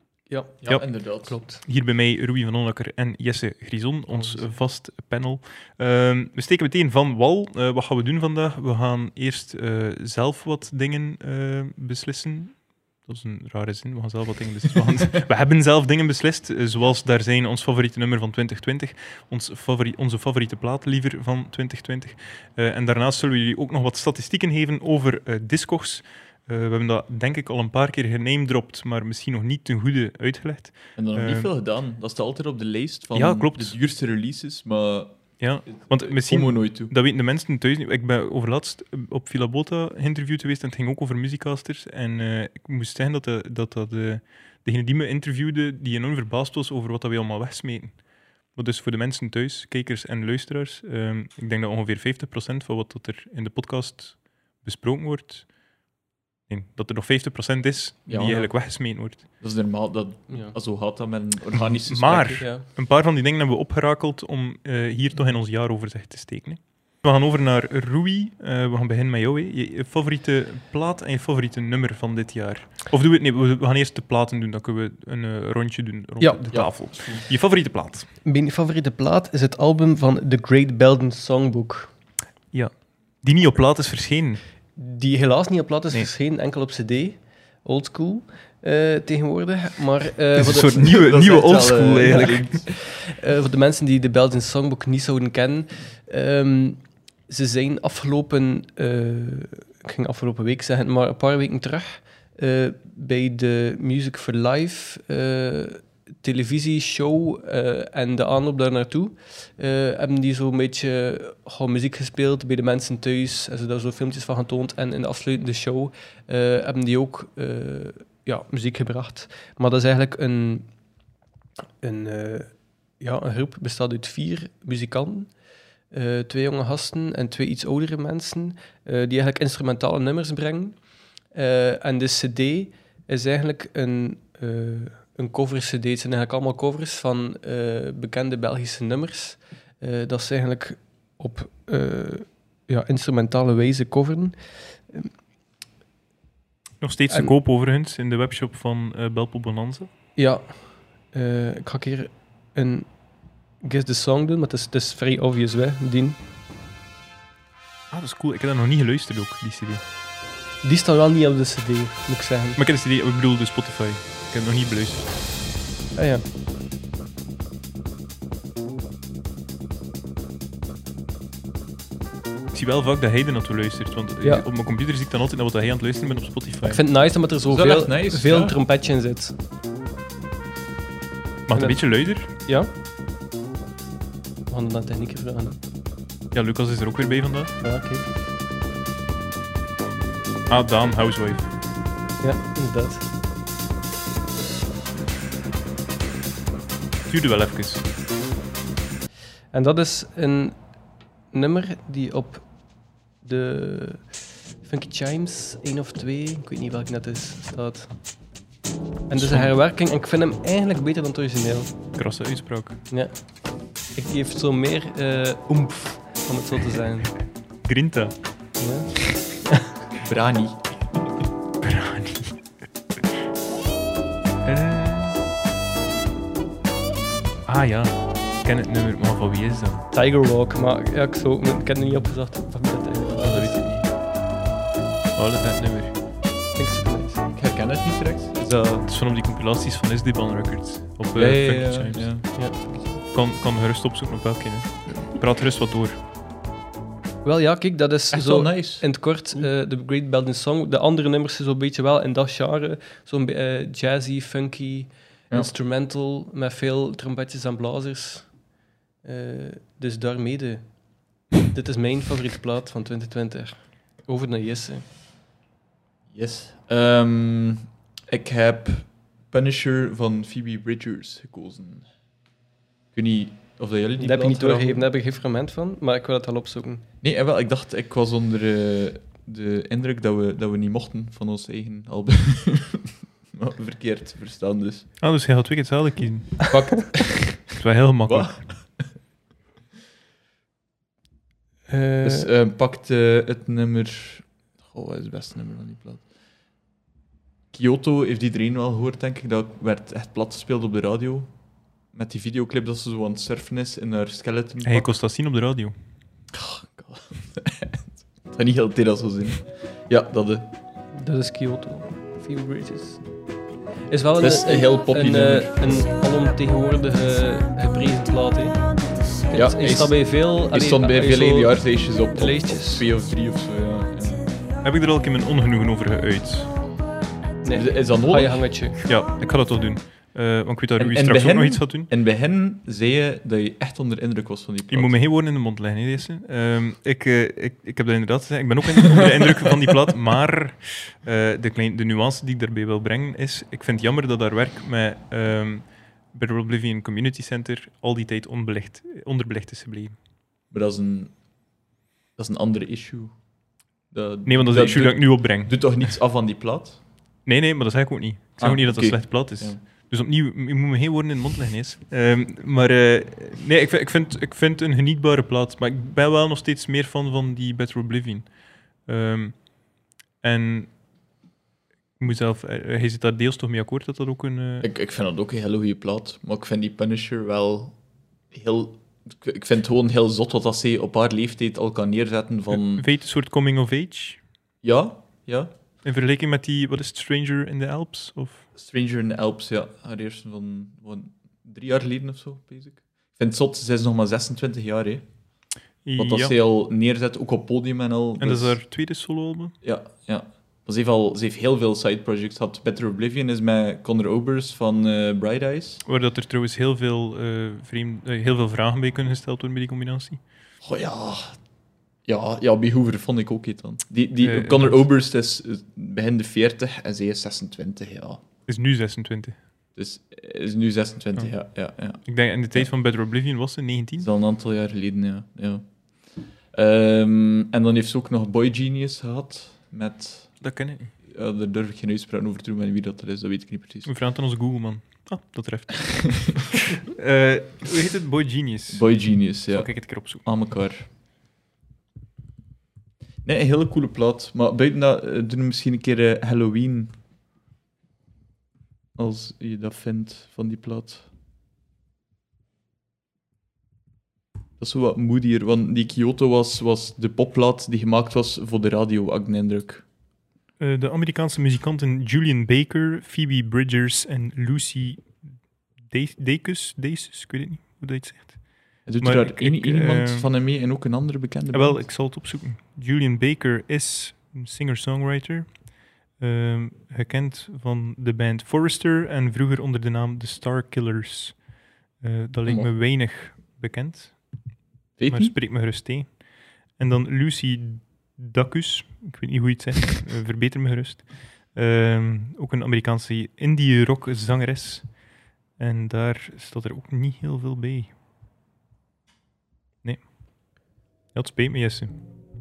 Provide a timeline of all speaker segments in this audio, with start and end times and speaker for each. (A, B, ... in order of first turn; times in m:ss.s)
0:00.3-0:01.6 A
0:00.6-0:01.4 B
0:00.7-0:31.5 C
0:31.0-0:36.9 B
0:33.1-0:33.8 C
0:35.4-0:55.5 C
0:56.5-0:59.2 C
0:58.1-0:58.7 B
0:59.4-1:02.4 B
1:01.5-1:18.1 C
1:16.2-1:16.7 A
1:16.5-1:17.3 B
1:18.2-1:21.9 A
1:22.5-1:24.4 C
1:24.8-1:31.0 A
1:30.4-1:32.6 C
1:30.6-1:32.7 B
1:32.0-2:00.7 A
2:01.8-2:05.3 A
2:05.9-2:10.8 A
2:11.3-2:24.3 A
2:26.8-2:29.9 C
2:30.2-2:32.9 A
2:33.6-2:36.2 A
2:37.9-2:39.8 C
2:40.6-2:42.6 A
2:42.6-2:45.1 C
2:46.0-2:46.2 A
2:52.5-2:56.8 C
2:56.6-2:59.3 A
2:57.5-2:58.6 B
3:01.5-3:02.3 C
3:01.5-3:02.7 A
3:04.5-3:05.6 A
3:06.3-3:07.5 C
3:07.6-3:08.1 A
3:10.5-3:11.5 C
3:12.2-3:13.1 A
3:17.1-3:17.8 C
3:19.5-3:20.6 A
3:21.3-3:22.4 A
3:23.2-3:24.1 A
3:24.6-3:27.9 A
3:29.1-3:31.7 A
3:29.2-3:29.5 C
3:31.9-3:32.8 C
3:33.9-3:37.2 A
3:37.6-3:38.2 C
3:38.6-3:39.7 A
3:40.0-3:40.7 B
3:41.6-3:42.4 C
3:44.4-3:45.2 C
3:47.5-3:49.8 C
3:49.9-3:53.7 A
3:53.2-3:53.8 B
3:55.2-3:55.9 C
3:56.6-3:57.3 A
3:57.3-3:58.9 B
3:58.8-4:02.4 C
4:01.1-4:02.5 B
4:02.4-4:02.8 A
4:03.1-4:06.0 C
4:07.2-4:18.3 A
4:08.1-4:08.8 B
4:19.0-4:24.8 A
4:26.1-4:31.9 B
4:32.9-4:34.8 B
4:34.0-4:36.8 A
4:37.0-4:44.9 B
4:45.0-4:46.6 C
4:46.5-4:48.9 B
4:47.6-4:48.4 C
4:51.7-4:52.3 A
4:52.0-4:56.1 B
4:57.5-5:01.3 B
5:01.9-5:04.9 B
5:04.6-5:05.7 C
5:06.3-5:10.5 B
5:10.9-5:13.0 A
5:13.9-5:22.8 A
5:14.2-5:15.9 B
5:19.3-5:24.3 B
5:24.6-5:26.5 C
5:27.4-5:28.8 A
5:27.5-5:28.6 B
5:28.8-5:31.9 C
5:30.8-5:34.9 B
5:34.7-5:50.0 C
5:50.5-5:51.2 B
5:52.2-5:53.2 B
5:53.9-5:56.8 B
5:54.2-5:55.8 C
5:57.2-6:10.7 C
5:58.4-5:59.6 B
6:12.0-6:14.7 C
6:14.6-6:17.8 B
6:18.3-6:22.9 B
6:22.5-6:24.2 C
6:24.6-6:25.5 B
6:25.8-6:28.4 C
6:28.5-6:35.0 B
6:35.8-6:36.3 C
6:36.0-6:38.6 B
6:38.2-6:39.5 C
6:39.6-6:45.8 B
6:45.8-6:50.2 C
6:50.6-6:51.4 B
6:52.0-6:58.2 B
6:54.2-6:54.8 C
6:58.5-6:59.4 C
6:59.8-7:02.7 B
7:02.0-7:04.1 C
7:04.0-7:10.5 B
7:10.4-7:10.9 C
7:11.0-7:13.9 B
7:13.8-7:20.2 C
7:18.7-7:20.9 B
7:23.2-7:27.0 B
7:28.9-7:31.0 B
7:34.6-7:39.8 B
7:40.6-7:45.2 C
7:45.8-7:50.3 C
7:48.8-7:51.9 B
7:51.5-8:01.5 C
8:02.0-8:04.4 C
8:02.4-8:02.7 B
8:05.0-8:05.4 B
8:05.1-8:15.0 C
8:15.6-8:17.9 C
8:19.8-8:21.9 C